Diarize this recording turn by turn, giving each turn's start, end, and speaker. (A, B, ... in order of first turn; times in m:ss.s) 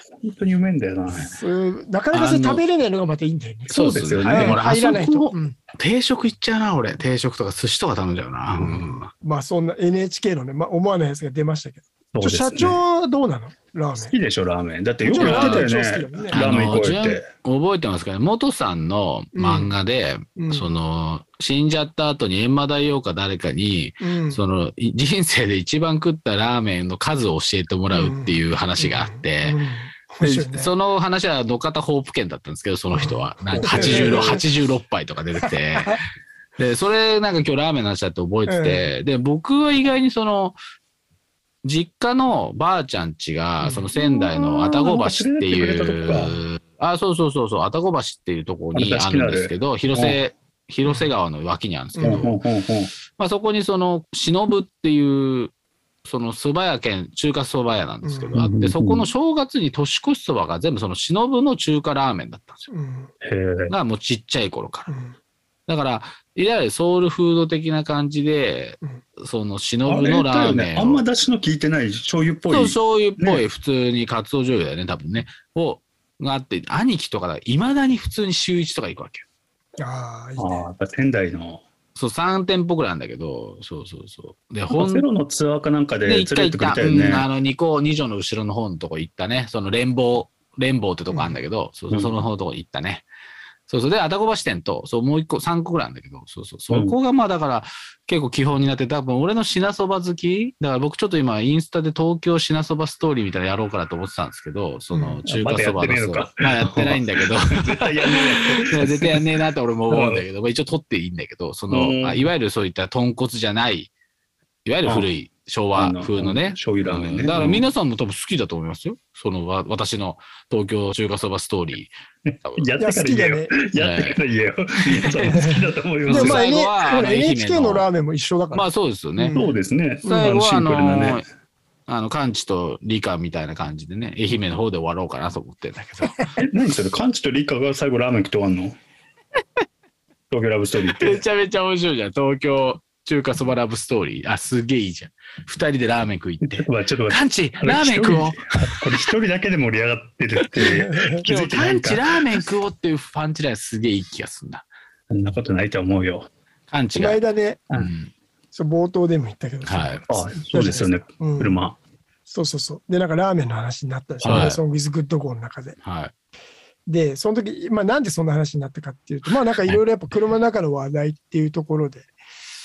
0:00.2-0:01.4 A
0:01.1-0:05.6 B
0:02.1-0:02.6 C
0:03.7-0:04.6 A
0:03.7-0:09.1 C
0:08.5-0:08.8 A
0:08.7-0:14.2 B
0:12.1-0:12.8 A
0:14.0-0:17.2 A
0:15.0-0:16.9 B
0:15.2-0:15.7 C
0:16.3-0:29.6 C
0:19.3-0:19.7 B
0:20.4-0:20.7 B
0:24.0-0:24.4 B
0:27.9-0:30.7 B
0:30.2-0:36.0 C
0:32.9-0:34.4 B
0:33.5-0:34.4 A
0:35.4-0:36.0 B
0:36.6-0:40.6 C
0:38.5-0:38.9 B
0:41.6-0:52.4 C
0:43.6-0:43.9 B
0:43.9-0:46.4 A
0:48.7-0:50.2 A
0:50.8-0:51.1 B
0:52.0-0:52.3 B
0:52.0-0:52.9 A
0:53.1-0:55.5 C
0:56.0-1:02.7 C
0:58.0-0:58.4 B
0:58.3-0:59.1 A
1:02.7-1:03.1 B
1:03.2-1:03.7 A
1:03.7-1:04.9 C
1:04.9-1:05.2 B
1:05.7-1:11.0 C
1:09.8-1:13.4 A
1:12.5-1:19.2 C
1:19.8-1:20.7 B
1:20.4-1:21.6 A
1:22.0-1:25.0 C
1:24.7-1:27.3 A
1:26.0-1:33.0 C
1:31.1-1:31.4 B
1:33.7-1:53.9 C
1:44.9-1:45.2 B
1:45.3-1:47.1 A
1:47.6-1:49.2 A
1:49.9-1:50.2 A
1:51.7-1:52.3 A
1:54.6-2:02.7 C
1:55.8-1:57.6 A
2:02.3-2:06.5 A
2:02.8-2:03.5 B
2:03.8-2:04.2 C
2:05.3-2:09.6 B
2:06.1-2:07.9 C
2:08.5-2:09.4 C
2:09.3-2:11.2 A
2:10.0-2:11.3 C
2:11.9-2:16.3 C
2:16.4-2:18.8 A
2:20.3-2:21.2 A
2:21.0-2:28.8 C
2:26.4-2:32.4 A
2:30.6-2:31.2 B
2:31.2-2:34.7 C
2:35.1-2:36.3 A
2:36.7-2:38.1 C
2:37.0-2:37.6 B
2:38.5-2:41.6 B
2:39.6-2:40.0 C
2:40.1-2:41.8 A
2:42.3-2:45.8 B
2:44.2-2:44.5 A
2:44.2-2:44.6 C
2:45.8-2:46.1 C
2:46.8-2:52.1 B